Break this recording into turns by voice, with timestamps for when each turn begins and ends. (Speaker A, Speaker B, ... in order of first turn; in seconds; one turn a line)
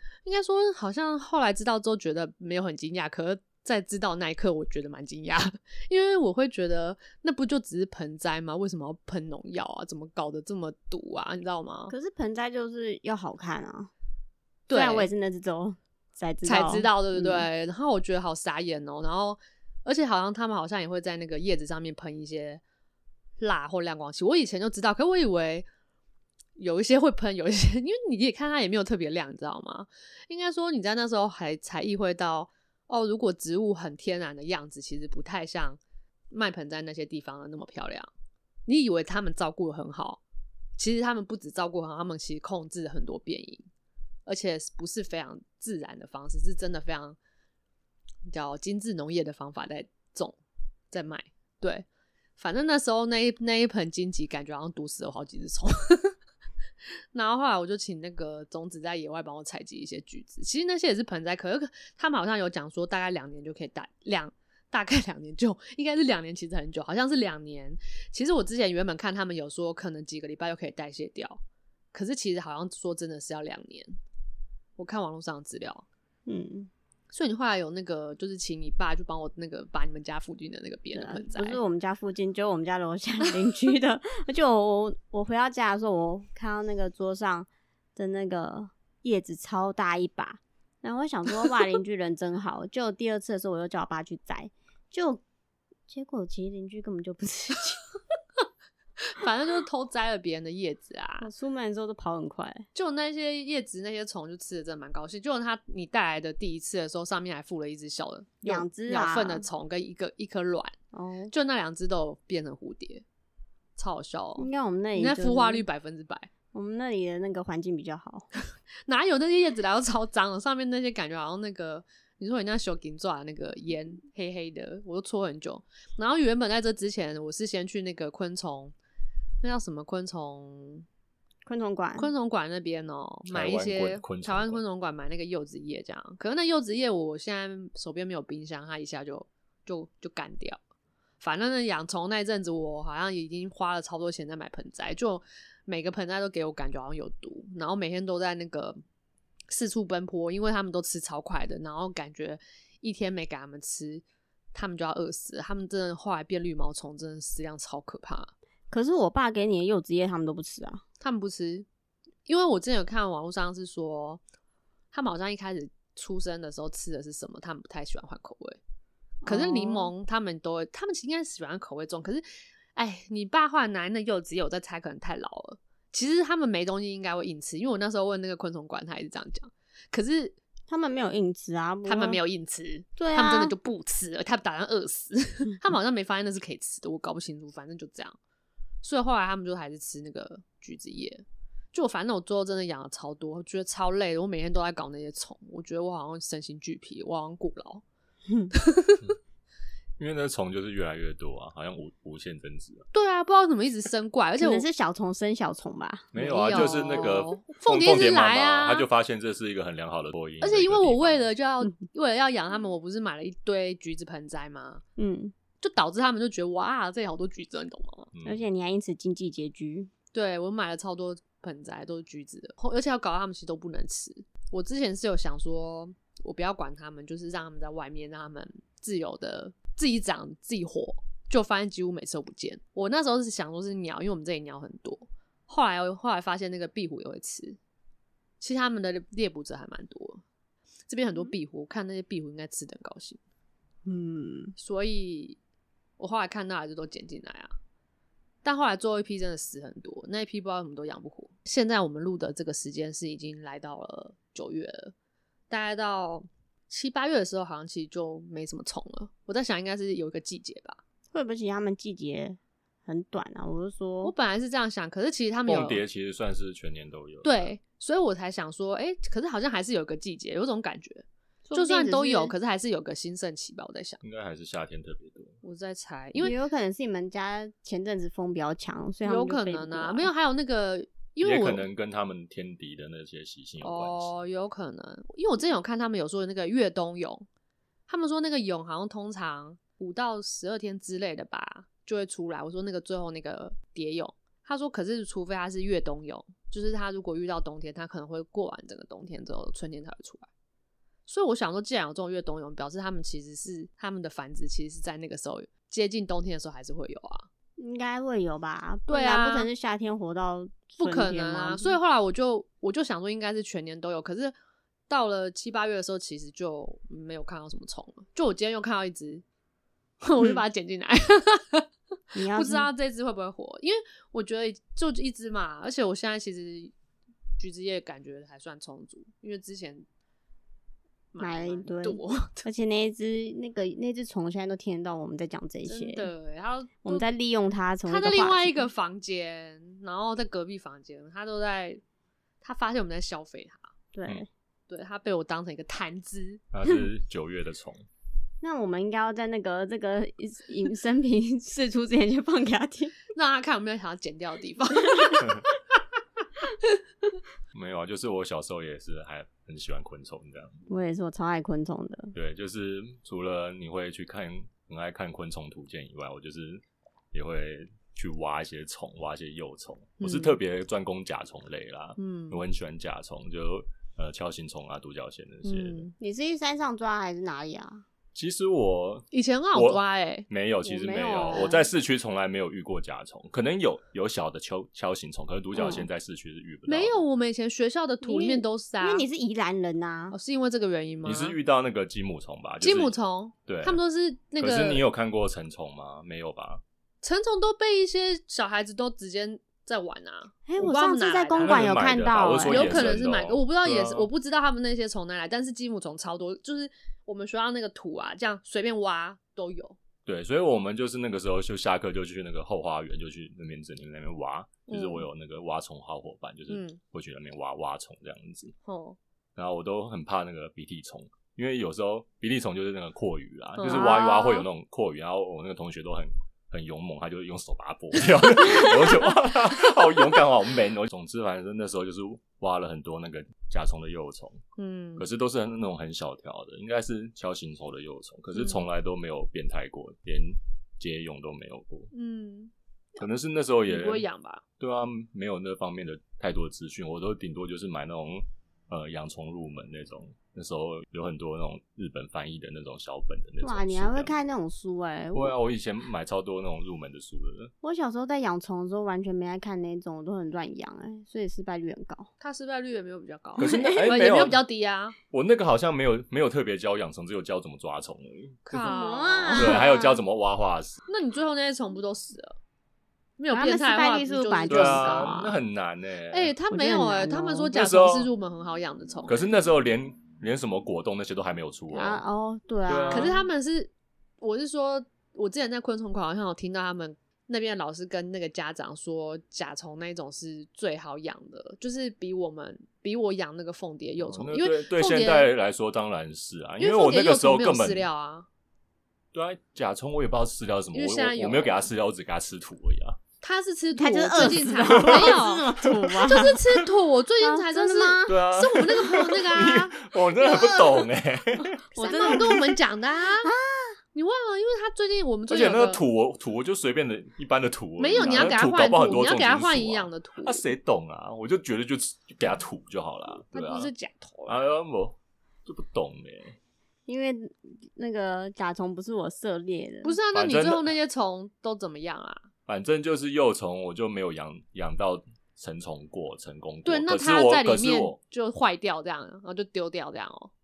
Speaker A: 0.2-11.9
Speaker B: 11.9-13.9
Speaker A: 14.7-15.1
Speaker B: 14.7-17.4
Speaker A: 16.4-22.6
Speaker A: 23.4-25.7
Speaker A: 26.6-35.8
Speaker A: 36.3-38.1
Speaker A: 38.6-40.2
Speaker A: 40.8-43.6
Speaker A: 44.2-47.2
Speaker A: 48.3-50.4
Speaker A: 50.9-51.9
Speaker A: 52.4-56.1
Speaker A: 57.1-71.4
Speaker A: 71.9-74.0
Speaker A: 74.8-75.8
Speaker B: 76.2-76.7
Speaker A: 77.1-81.6
Speaker B: 80.9-95.2
Speaker B: 95.9-97.8
Speaker A: 99.0-101.3
Speaker B: 101.2-102.7
Speaker A: 102.7-110.7
Speaker B: 108.4-109.4
Speaker B: 110.9-111.3
Speaker A: 111.3-113.0
Speaker A: 113.8-116.3
Speaker B: 114.4-115.6
Speaker B: 116.5-118.3
Speaker A: 118.8-128.7
Speaker A: 129.4-130.8
Speaker B: 131.4-132.1
Speaker A: 132.0-140.6
Speaker C: 133.3-134.6
Speaker A: 141.2-148.8
Speaker A: 149.5-158.3
Speaker B: 158.7-160.8
Speaker A: 161.0-161.7
Speaker A: 162.2-164.2
Speaker A: 164.9-168.6
Speaker B: 169.2-169.9
Speaker A: 169.2-172.2
Speaker A: 172.7-180.4
Speaker B: 180.7-182.2
Speaker A: 181.8-188.2
Speaker B: 183.0-183.5
Speaker A: 188.8-197.8
Speaker A: 198.5-199.0
Speaker C: 200.0-202.9
Speaker A: 202.9-204.6
Speaker B: 204.4-207.2
Speaker C: 206.1-211.2
Speaker A: 206.2-208.8
Speaker A: 210.4-214.8
Speaker B: 215.0-215.3
Speaker A: 215.6-218.1
Speaker C: 218.1-218.4
Speaker B: 218.2-219.9
Speaker A: 220.1-237.6
Speaker A: 238.4-240.2
Speaker A: 240.9-243.2
Speaker B: 243.8-244.5
Speaker A: 244.6-245.4
Speaker A: 246.0-247.5
Speaker A: 248.4-254.9
Speaker A: 255.5-260.8
Speaker B: 261.1-264.1
Speaker A: 264.0-265.8
Speaker C: 265.5-267.5
Speaker A: 267.2-274.0
Speaker B: 271.4-272.3
Speaker C: 274.0-275.4
Speaker A: 275.4-276.4
Speaker B: 276.2-280.1
Speaker A: 279.0-281.6
Speaker C: 281.2-284.1
Speaker A: 283.6-287.2
Speaker A: 287.9-300.3
Speaker A: 301.1-307.3
Speaker B: 307.6-311.8
Speaker A: 308.9-309.5
Speaker A: 310.8-314.3
Speaker A: 314.9-319.2
Speaker A: 320.0-326.7
Speaker B: 322.1-322.7
Speaker A: 327.4-329.9
Speaker A: 331.1-332.5
Speaker B: 331.2-336.1
Speaker A: 335.6-337.1
Speaker B: 336.8-338.7
Speaker A: 337.9-341.8
Speaker A: 342.4-343.7
Speaker B: 343.9-344.3
Speaker A: 344.7-346.4
Speaker C: 346.5-347.8
Speaker B: 348.4-353.0
Speaker A: 353.1-355.4
Speaker C: 357.5-360.6
Speaker B: 360.7-362.1
Speaker C: 362.1-375.9
Speaker A: 370.0-370.4
Speaker A: 372.0-372.4
Speaker A: 375.4-375.9
Speaker B: 376.0-377.8
Speaker C: 378.1-387.0
Speaker A: 379.1-380.2
Speaker B: 380.6-381.6
Speaker A: 381.2-381.5
Speaker B: 385.5-385.9
Speaker A: 386.7-389.0
Speaker B: 388.0-390.1
Speaker A: 390.1-391.4
Speaker C: 391.0-392.9
Speaker A: 392.6-394.8
Speaker C: 393.4-393.8
Speaker C: 394.4-396.6
Speaker A: 397.0-401.7
Speaker B: 400.5-402.9
Speaker C: 401.4-404.1
Speaker A: 402.4-409.8
Speaker C: 410.1-418.5
Speaker A: 414.7-415.1
Speaker A: 416.5-416.8
Speaker A: 418.6-419.0
Speaker C: 419.4-434.4
Speaker A: 423.6-424.4
Speaker B: 423.7-424.4
Speaker A: 434.6-435.0
Speaker C: 435.0-441.9
Speaker A: 441.9-442.5
Speaker C: 443.0-444.0
Speaker A: 443.6-444.4
Speaker C: 444.6-454.1
Speaker B: 453.4-455.3
Speaker C: 455.1-457.5
Speaker B: 457.6-462.1
Speaker A: 462.2-464.9
Speaker C: 463.4-464.4
Speaker B: 463.4-464.0
Speaker C: 465.1-468.6
Speaker A: 468.4-469.6
Speaker B: 468.6-470.0
Speaker C: 469.3-470.8
Speaker A: 470.9-472.4
Speaker A: 473.2-475.2
Speaker B: 473.3-475.4
Speaker C: 474.5-476.3
Speaker A: 476.1-479.2
Speaker B: 476.5-477.5
Speaker C: 477.5-478.1
Speaker C: 479.1-482.0
Speaker B: 481.7-483.2
Speaker C: 482.7-483.1
Speaker A: 482.9-495.3
Speaker C: 494.0-497.9
Speaker A: 496.6-498.3
Speaker C: 499.1-503.0
Speaker A: 500.7-501.6
Speaker A: 503.2-509.8
Speaker B: 503.7-506.4
Speaker C: 504.2-505.9
Speaker B: 507.2-508.2
Speaker C: 508.1-512.2
Speaker B: 510.2-510.9
Speaker B: 511.7-512.6
Speaker A: 511.8-513.3
Speaker B: 513.2-513.8
Speaker A: 513.9-515.8
Speaker C: 515.3-523.7
Speaker A: 517.8-520.4
Speaker A: 523.3-524.3
Speaker C: 524.3-526.4
Speaker B: 526.9-529.9
Speaker A: 529.8-532.3
Speaker C: 530.1-530.7
Speaker C: 532.5-538.0
Speaker A: 536.6-540.3